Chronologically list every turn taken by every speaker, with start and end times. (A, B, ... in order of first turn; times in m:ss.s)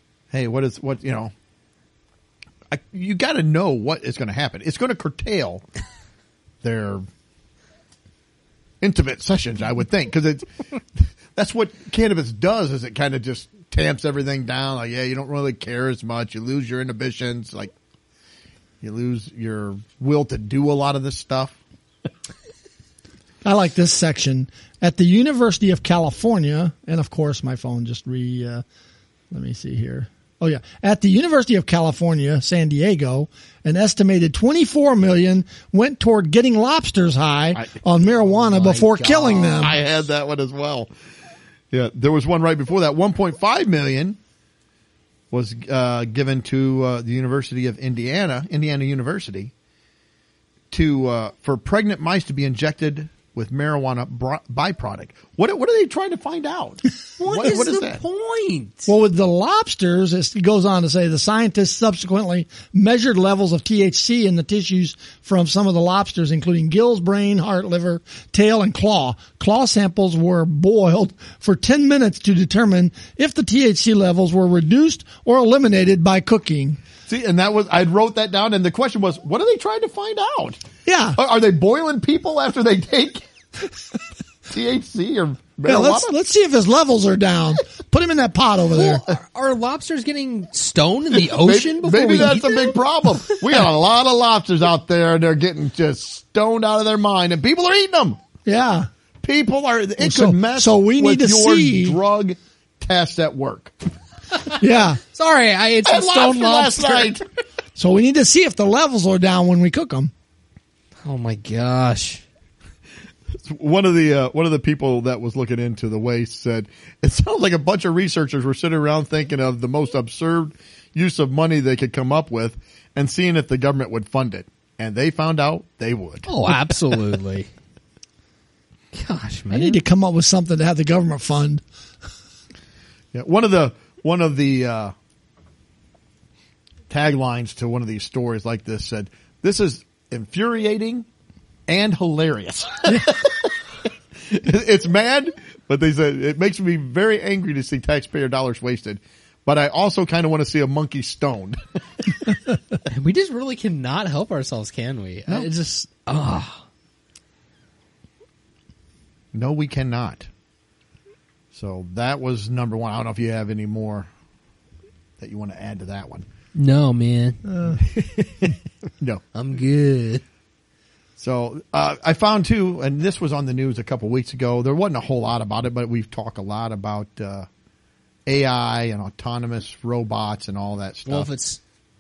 0:00.3-0:01.3 A
0:02.7-0:05.6 A
0:06.6-0:07.0 A
0:08.8-0:10.5 A
0:11.0-0:17.7 A
0:18.8-0:21.6 A
0:23.4-0:28.6 B
0:29.3-0:39.8 B
0:37.5-0:40.9 A
0:41.7-0:44.2 A
0:45.3-0:49.5 A
0:50.7-0:58.0 A
0:57.2-0:58.9 C
0:58.9-1:16.8 B
1:17.1-1:20.6 A
1:20.9-1:21.2 B
1:21.2-1:23.3 A
1:24.5-1:26.2 A
1:25.6-1:29.0 B
1:28.7-1:33.4 C
1:31.1-1:38.2 A
1:38.5-1:38.9 B
1:39.2-1:43.8 A
1:40.0-1:42.0 B
1:44.6-1:45.0 B
1:45.0-1:47.2 C
1:45.8-1:47.2 A
1:47.8-1:50.1 B
1:51.0-1:52.2 C
1:53.4-2:06.8 A
2:06.3-2:07.5 C
2:08.9-2:09.8 C
2:09.5-2:11.6 B
2:13.1-2:14.9 A
2:16.9-2:21.1 A
2:21.7-2:23.6 A
2:24.3-2:31.6 A
2:32.9-2:36.6 C
2:39.3-2:40.3 A
2:41.5-2:44.1 A
2:45.2-2:46.3 A
2:46.6-2:47.4 C
2:47.5-2:47.8 B
2:47.8-2:49.2 A
2:49.4-2:50.2 C
2:51.2-2:57.5 A
2:58.3-3:01.3 A
3:01.1-3:01.6 C